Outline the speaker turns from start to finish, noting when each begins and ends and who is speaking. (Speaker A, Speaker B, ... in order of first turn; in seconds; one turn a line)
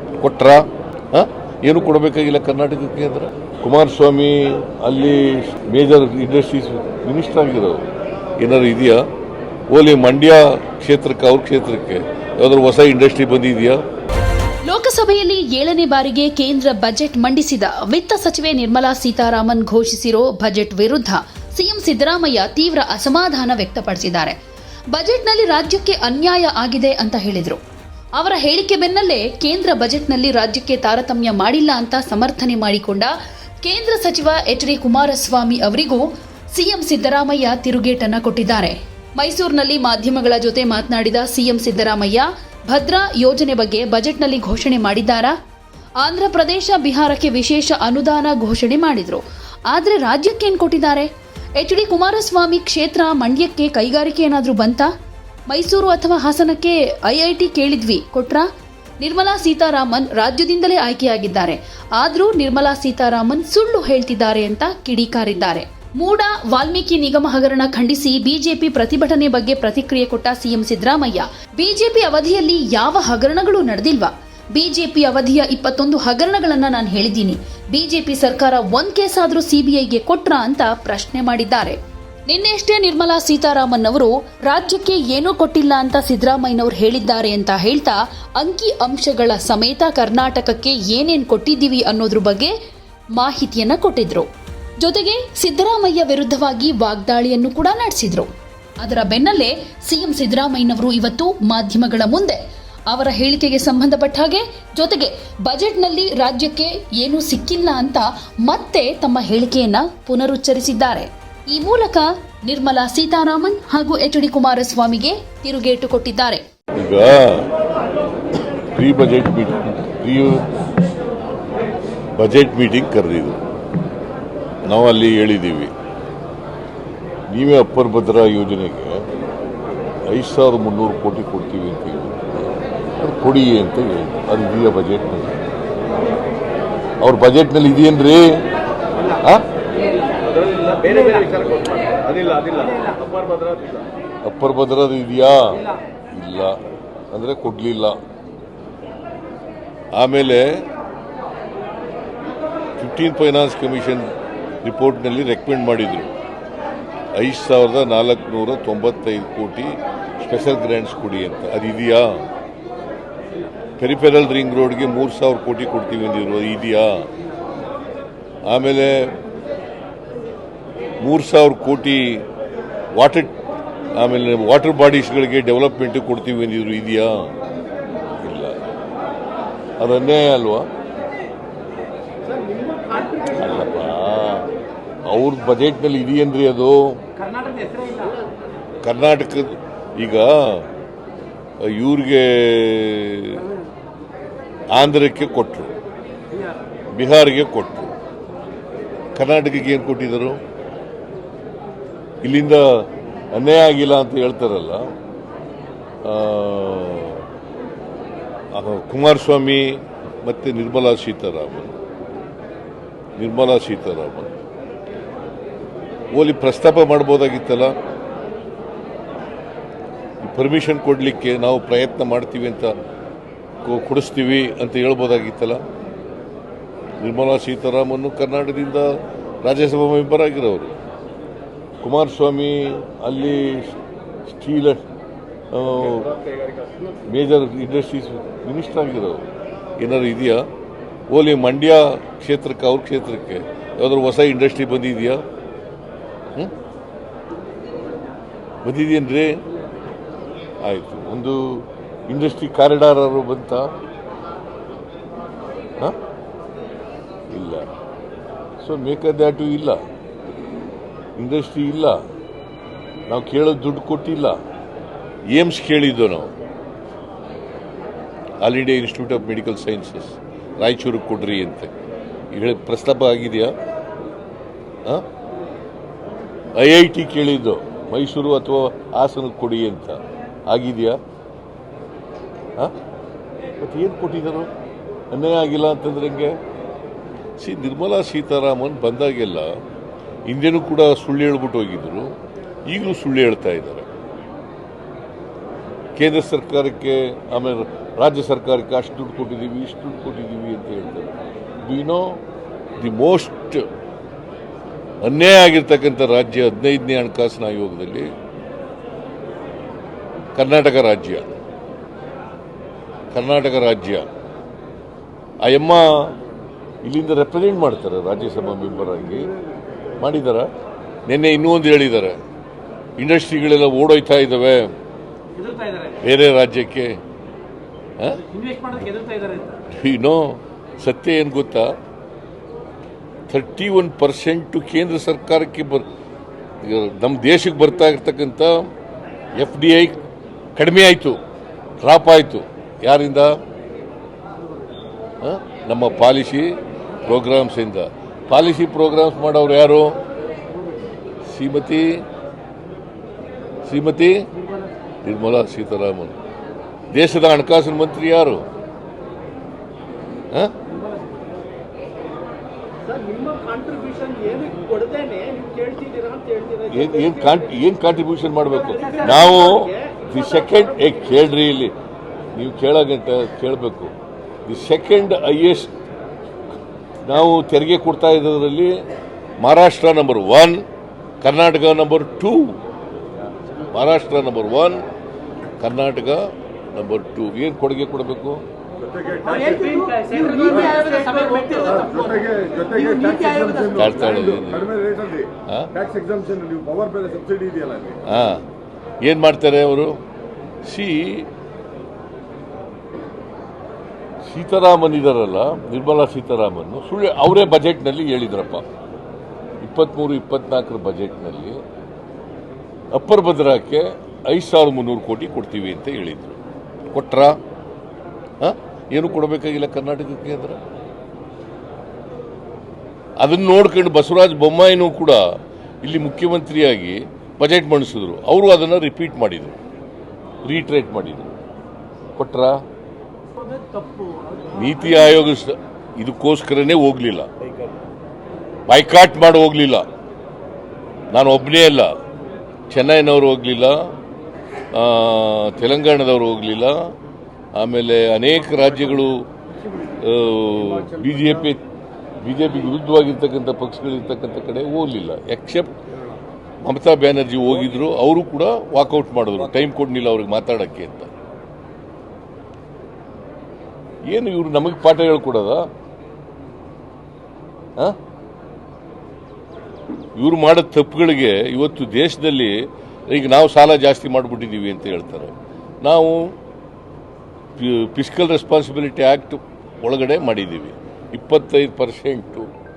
Speaker A: 0.2-7.8
Speaker A: 8.4-9.0
Speaker A: 9.7-13.8
Speaker B: 14.7-24.4
Speaker B: 24.9-27.6
Speaker B: 28.2-33.1
Speaker B: 33.6-45.3
Speaker B: 46.0-54.9
Speaker B: 55.5-58.5
Speaker B: 59.0-81.8
Speaker B: 82.3-92.5
Speaker B: 93.2-94.3
Speaker B: 94.8-98.3
Speaker B: 98.8-116.4
Speaker A: 116.8-117.5
Speaker A: 118.7-120.5
Speaker A: 122.2-123.4
Speaker A: 124.7-125.7
Speaker A: 127.3-129.0
Speaker A: 130.1-135.4
Speaker A: 137.0-138.4
Speaker A: 139.1-139.4
Speaker C: 140.8-141.4
Speaker C: 142.2-143.0
Speaker A: 144.2-146.6
Speaker A: 147.1-148.0
Speaker A: 149.9-150.7
Speaker A: 152.8-154.1
Speaker A: 154.6-156.1
Speaker A: 157.2-162.2
Speaker A: 163.8-167.1
Speaker A: 168.5-169.2
Speaker A: 171.0-172.2
Speaker A: 172.9-173.3
Speaker A: 173.9-177.3
Speaker A: 178.2-178.6
Speaker A: 179.8-180.7
Speaker C: 182.3-183.3
Speaker A: 183.3-184.5
Speaker A: 185.1-187.0
Speaker C: 187.4-188.2
Speaker A: 188.8-190.7
Speaker A: 191.6-193.5
Speaker A: 194.7-195.7
Speaker A: 196.9-197.9
Speaker A: 199.2-200.4
Speaker A: 202.2-204.9
Speaker A: 206.0-207.2
Speaker A: 208.5-211.8
Speaker A: 213.2-214.4
Speaker A: 216.1-217.8
Speaker A: 220.2-222.7
Speaker A: 223.6-225.6
Speaker A: 227.0-228.9
Speaker A: 229.4-230.8
Speaker A: 231.8-233.8
Speaker A: 234.3-234.8
Speaker A: 235.5-236.2
Speaker A: 237.1-239.2
Speaker A: 239.8-240.4
Speaker A: 241.1-245.2
Speaker A: 248.6-249.4
Speaker A: 250.6-253.7
Speaker A: 257.3-257.7
Speaker A: 258.6-259.8
Speaker A: 261.2-262.0
Speaker A: 263.1-264.4
Speaker A: 265.3-266.3
Speaker A: 268.4-271.7
Speaker A: 272.3-273.5
Speaker A: 276.6-281.0
Speaker A: 283.6-284.5
Speaker A: 285.1-286.4
Speaker A: 287.4-289.5
Speaker A: 290.3-292.1
Speaker A: 292.7-293.9
Speaker A: 296.0-302.2
Speaker A: 302.8-303.7
Speaker A: 305.0-308.1
Speaker A: 310.4-311.3
Speaker A: 313.1-314.1
Speaker A: 315.4-316.1
Speaker A: 316.8-319.3
Speaker A: 320.0-320.5
Speaker A: 321.1-322.2
Speaker A: 323.0-324.7
Speaker A: 325.9-327.0
Speaker A: 328.0-329.0
Speaker C: 329.1-329.4
Speaker A: 329.6-331.7
Speaker A: 333.3-335.9
Speaker A: 336.6-338.7
Speaker A: 339.4-340.0
Speaker A: 340.6-341.2
Speaker A: 341.8-343.4
Speaker A: 345.2-350.0
Speaker A: 351.3-352.0
Speaker A: 353.7-354.3
Speaker A: 355.0-356.2
Speaker A: 356.9-358.4
Speaker C: 362.9-366.7
Speaker A: 366.6-371.7
Speaker A: 372.4-373.9
Speaker A: 374.5-375.7
Speaker A: 377.1-378.8
Speaker A: 379.4-380.6
Speaker A: 381.2-382.6
Speaker A: 383.7-384.8
Speaker A: 385.6-388.4
Speaker C: 389.0-393.7
Speaker A: 393.6-395.8
Speaker C: 396.5-397.8
Speaker A: 398.0-398.4
Speaker A: 399.0-400.0
Speaker A: 400.6-401.3
Speaker A: 404.2-408.6
Speaker A: 409.6-411.6
Speaker A: 412.9-416.4
Speaker A: 416.9-417.4
Speaker A: 418.4-420.6
Speaker A: 423.2-425.2
Speaker A: 425.8-429.6
Speaker A: 430.4-431.4
Speaker A: 432.2-432.6
Speaker C: 433.8-434.1
Speaker A: 434.5-437.3
Speaker A: 438.7-439.9
Speaker A: 441.1-441.9
Speaker A: 442.7-443.9
Speaker A: 444.7-446.9
Speaker A: 447.6-449.3
Speaker A: 449.9-451.6
Speaker A: 452.2-455.8
Speaker A: 456.6-461.1
Speaker A: 464.1-465.7
Speaker A: 470.2-476.3
Speaker A: 477.6-482.5